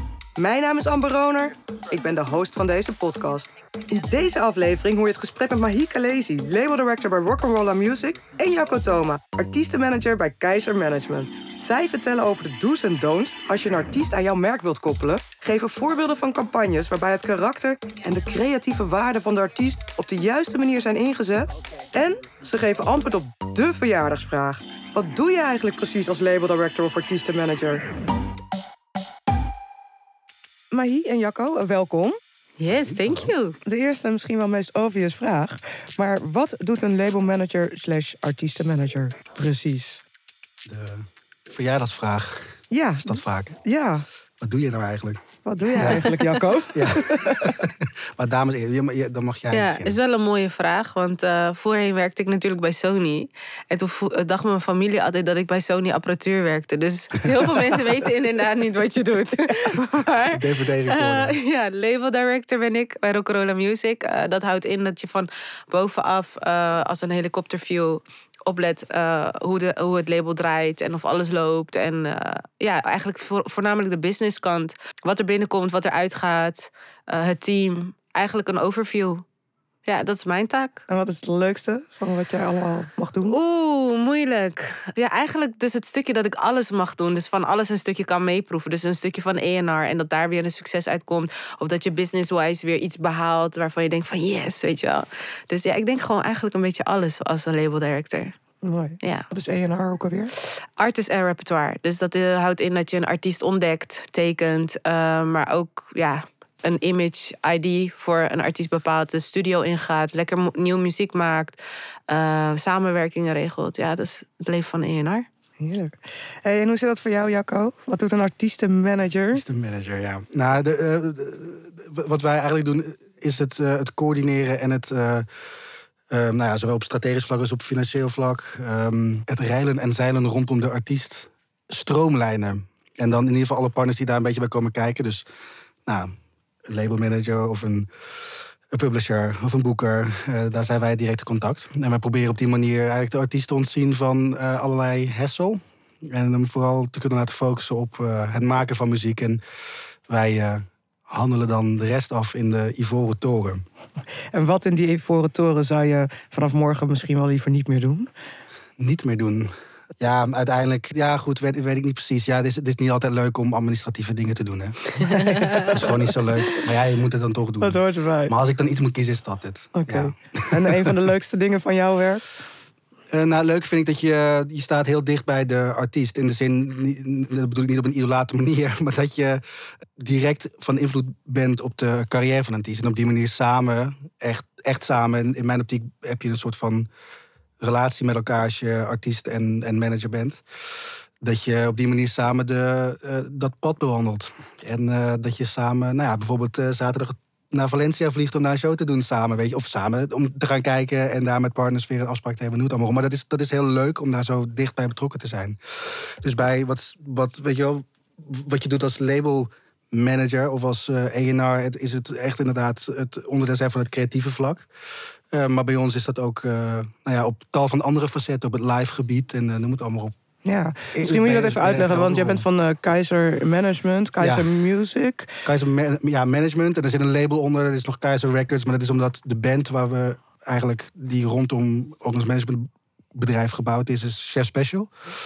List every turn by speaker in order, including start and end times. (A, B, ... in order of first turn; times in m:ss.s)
0:00.4-0:27.8 A
0:30.7-0:32.2 A
0:32.6-0:33.6 B
0:32.7-0:33.3 C
0:33.7-0:40.0 A
0:40.7-0:43.6 C
0:42.7-0:44.0 A
0:44.4-0:45.2 C
0:45.4-0:47.6 A
0:45.8-0:46.1 C
0:46.7-0:50.0 C
0:49.5-1:19.2 B
1:00.3-1:01.4 C
1:19.9-1:20.8 B
1:20.9-1:23.4 A
1:23.2-1:38.3 B
1:38.6-1:40.3 A
1:39.0-1:39.3 B
1:40.8-1:55.2 B
1:55.6-1:59.4 A
1:59.3-2:05.3 C
2:06.1-2:15.2 C
2:15.8-2:16.1 C
2:16.7-2:17.9 C
2:18.7-2:29.4 C
2:30.1-2:33.6 C
2:34.3-2:38.1 A
2:38.8-2:45.0 C
2:45.0-2:45.8 A
2:45.3-2:45.7 B
2:45.6-2:51.0 C
2:47.6-2:48.3 A
2:49.8-2:52.2 A
2:53.1-2:59.4 C
3:00.0-3:06.9 C
3:07.6-3:10.4 C
3:11.2-3:34.7 C
3:35.3-3:40.2 C
3:40.4-3:45.4 A
3:40.9-3:42.4 C
3:44.2-3:44.5 C
3:45.4-3:54.9 C